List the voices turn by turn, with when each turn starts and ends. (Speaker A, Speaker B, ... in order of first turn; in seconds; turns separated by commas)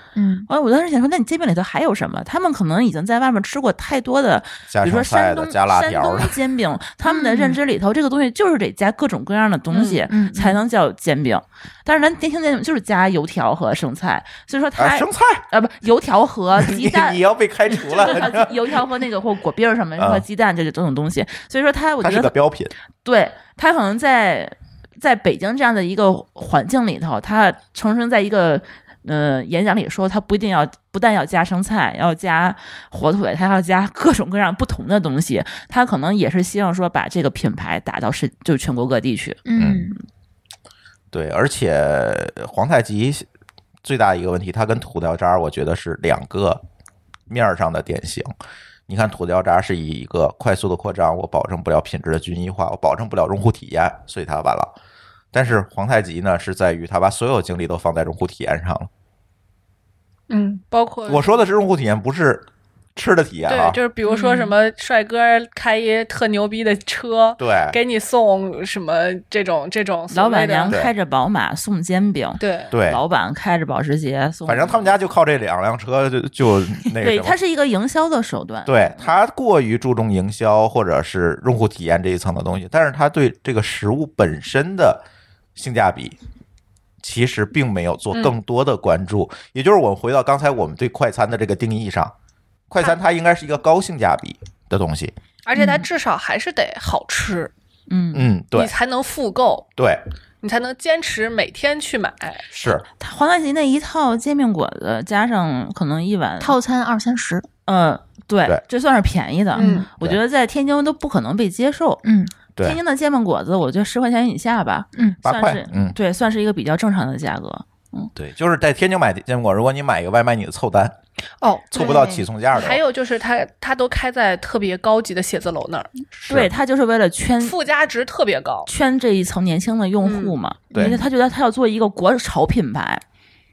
Speaker A: 0.2-0.5, Speaker B: 0.5-22.4, Speaker C: 4.7-6.4, Speaker A: 7.0-7.6, Speaker A: 10.0-10.6, Speaker C: 14.8-15.4, Speaker C: 16.6-18.8, Speaker C: 20.0-20.2, Speaker C: 22.0-22.7, Speaker B: 23.0-39.4, Speaker A: 39.5-40.0, Speaker C: 39.6-39.9, Speaker C: 41.1-43.3, Speaker C: 43.8-46.6, Speaker C: 47.3-48.3, Speaker C: 48.9-54.7, Speaker C: 55.3-58.9, Speaker D: 60.3-61.5, Speaker C: 61.1-62.5, Speaker C: 63.0-63.8, Speaker D: 63.5-70.8, Speaker B: 64.0-64.6, Speaker C: 67.4-67.8, Speaker B: 70.1-75.0, Speaker D: 72.4-72.7, Speaker C: 72.7-73.0, Speaker C: 74.5-77.4, Speaker B: 77.0-79.1, Speaker C: 78.7-85.0, Speaker C: 85.6-86.2, Speaker C: 87.0-92.1, Speaker C: 92.7-95.1, Speaker D: 95.5-97.5, Speaker B: 95.6-95.8, Speaker B: 97.9-98.3, Speaker C: 98.1-98.7, Speaker D: 98.5-99.7, Speaker C: 99.8-100.0, Speaker D: 100.4-102.5, Speaker C: 102.5-102.8, Speaker B: 103.0-106.6, Speaker A: 106.4-107.5, Speaker B: 107.7-112.0, Speaker A: 109.6-109.9, Speaker D: 109.6-109.9, Speaker A: 112.0-112.3, Speaker B: 112.6-118.1, Speaker A: 115.0-115.2, Speaker C: 115.2-116.0, Speaker C: 118.2-121.0, Speaker D: 121.4-125.9, Speaker C: 121.7-122.8, Speaker A: 121.8-122.2, Speaker C: 126.1-126.5, Speaker B: 126.3-127.6, Speaker D: 127.4-128.7, Speaker B: 128.7-133.0, Speaker D: 130.0-130.4, Speaker A: 130.7-131.0, Speaker C: 130.7-131.0